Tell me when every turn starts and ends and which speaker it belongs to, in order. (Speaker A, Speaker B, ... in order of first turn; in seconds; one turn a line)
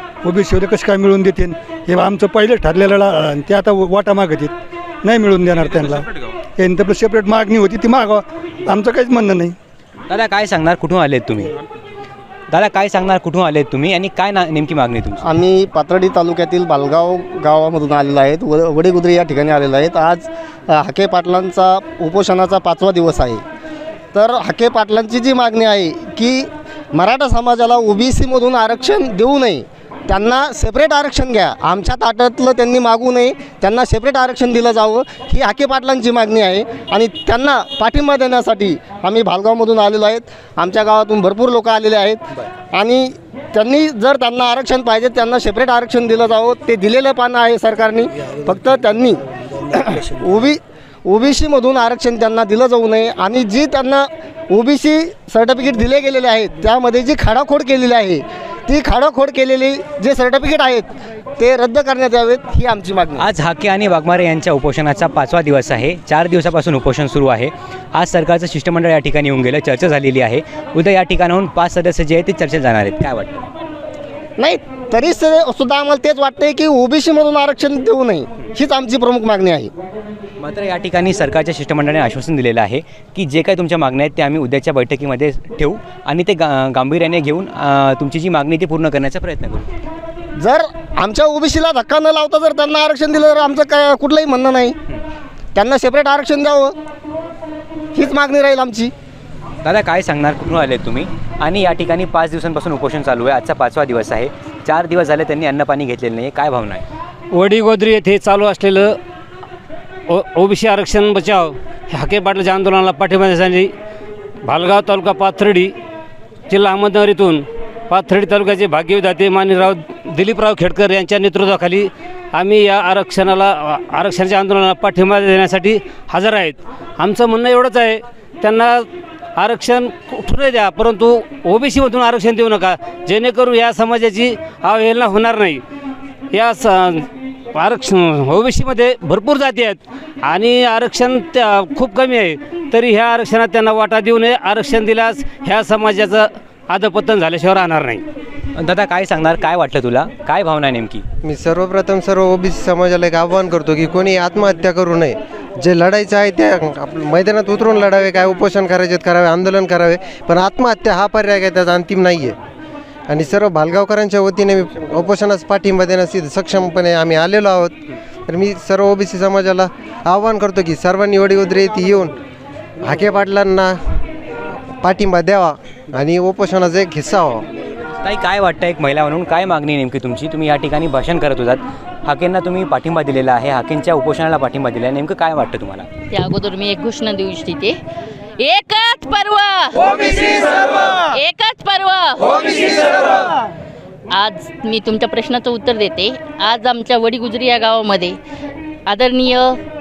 Speaker A: 0.2-9.6
Speaker B: 10.1-11.5
Speaker B: 12.5-15.2
Speaker C: 15.2-23.4
Speaker C: 24.1-60.9
Speaker C: 61.4-63.2
Speaker B: 63.2-73.4
Speaker C: 74.4-79.7
Speaker B: 80.4-89.7
Speaker C: 90.4-94.8
Speaker C: 95.5-96.7
Speaker C: 97.9-98.9
Speaker B: 99.6-106.8
Speaker D: 107.3-109.0
Speaker D: 110.1-113.7
Speaker D: 114.4-115.7
Speaker D: 116.5-135.6
Speaker D: 136.3-148.0
Speaker B: 148.5-151.0
Speaker E: 151.2-162.3
Speaker E: 163.1-167.7
Speaker E: 168.3-172.2
Speaker E: 172.8-173.8
Speaker E: 174.8-177.5
Speaker B: 178.0-185.9
Speaker F: 186.1-187.8
Speaker F: 188.4-193.3
Speaker F: 194.1-198.2
Speaker F: 198.9-199.6